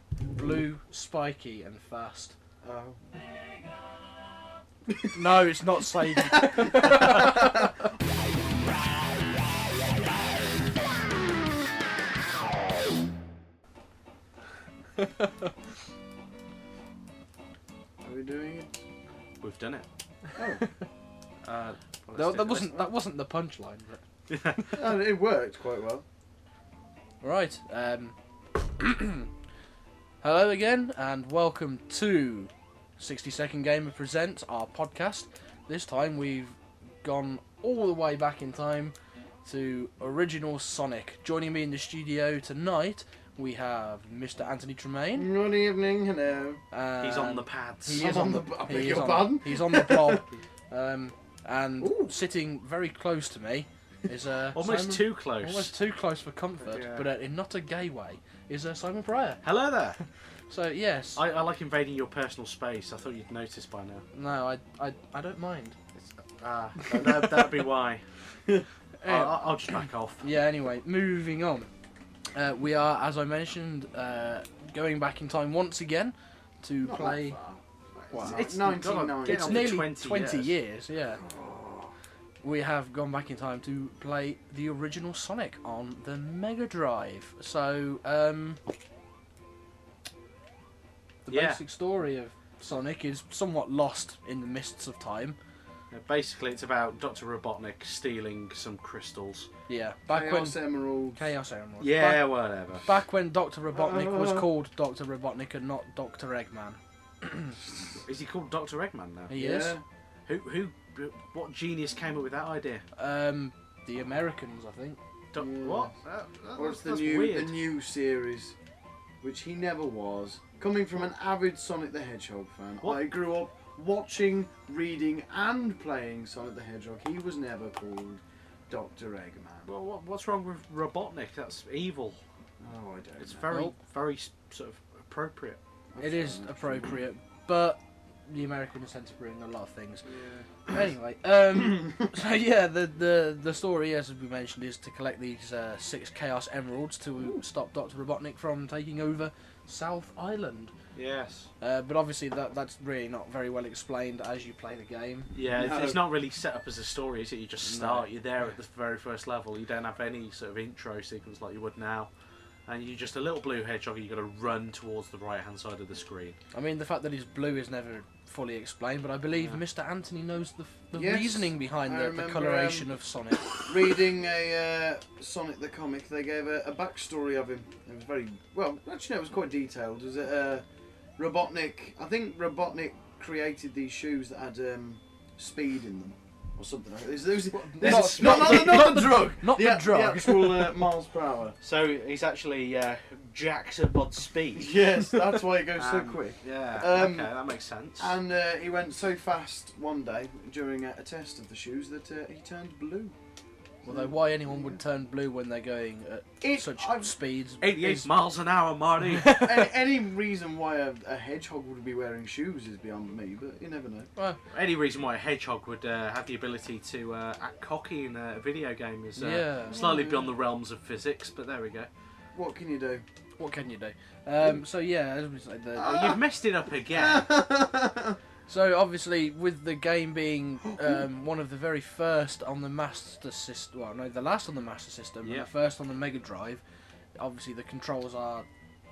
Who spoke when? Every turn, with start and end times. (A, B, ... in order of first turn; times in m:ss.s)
0:00.3-0:02.4 A
0:02.6-0:03.0 B
0:05.1-0:07.6 A
0:06.2-0:07.6 B
0:18.0-0:18.8 B
0:19.4-0:19.9 C
0:20.4-0:20.7 B
0:21.4-0:22.8 C
0:22.1-0:24.0 A
0:24.3-0:24.8 C
0:24.7-0:26.0 B
0:27.2-0:29.3 A
0:30.2-0:45.3 A
0:45.2-0:46.6 B
0:46.7-0:59.4 A
0:47.0-0:48.1 C
0:47.9-0:50.2 B
0:51.8-0:52.2 B
0:54.6-0:55.7 C
0:56.6-0:57.1 C
0:59.4-1:00.0 C
1:00.5-1:01.2 A
1:01.2-1:04.0 C
1:04.1-1:05.8 A
1:06.0-1:08.1 C
1:09.0-1:09.6 A
1:09.0-1:10.2 C
1:10.2-1:11.7 A
1:12.4-1:17.4 A
1:16.8-1:19.8 B
1:18.1-1:18.5 A
1:18.1-1:20.6 C
1:19.2-1:21.2 A
1:21.2-1:21.9 B
1:22.4-1:28.6 A
1:31.2-1:35.4 A
1:31.3-1:31.6 C
1:35.9-1:39.5 C
1:39.7-1:47.6 A
1:40.1-1:41.2 B
1:41.8-1:42.9 C
1:43.7-1:44.5 B
1:48.0-1:49.4 C
1:49.3-1:49.8 A
1:49.3-1:49.8 B
1:50.3-1:52.8 C
1:53.0-1:55.0 A
1:55.3-1:57.6 C
1:55.4-1:56.0 B
1:56.5-1:58.6 B
1:59.2-2:09.7 B
2:09.7-2:12.2 C
2:12.6-2:13.5 B
2:13.2-2:15.6 C
2:13.5-2:13.7 A
2:15.9-2:17.0 B
2:16.0-2:30.7 A
2:20.1-2:20.5 B
2:27.2-2:27.4 B
2:30.9-2:31.5 C
2:31.6-2:35.3 A
2:35.3-2:42.1 C
2:35.4-2:36.0 B
2:37.6-2:38.1 A
2:42.7-2:46.4 C
2:46.5-2:53.5 A
2:50.9-3:00.6 B
3:01.2-3:11.6 B
3:07.5-3:10.7 A
3:07.8-3:09.1 C
3:11.6-3:14.9 C
3:14.5-3:17.4 B
3:15.8-3:18.2 C
3:18.0-3:23.2 B
3:23.8-3:24.8 B
3:23.8-3:28.2 A
3:26.4-3:27.2 B
3:27.6-3:29.4 C
3:29.2-3:29.5 A
3:29.4-3:34.1 B
3:34.5-3:41.9 C
3:39.2-3:39.8 A
3:39.7-3:40.3 B
3:42.3-3:43.0 B
3:43.4-3:46.0 A
3:45.8-3:46.2 B
3:45.8-3:47.3 C
3:46.9-3:48.2 B
3:48.5-3:56.6 A
3:55.2-3:55.5 C
3:57.2-3:58.5 A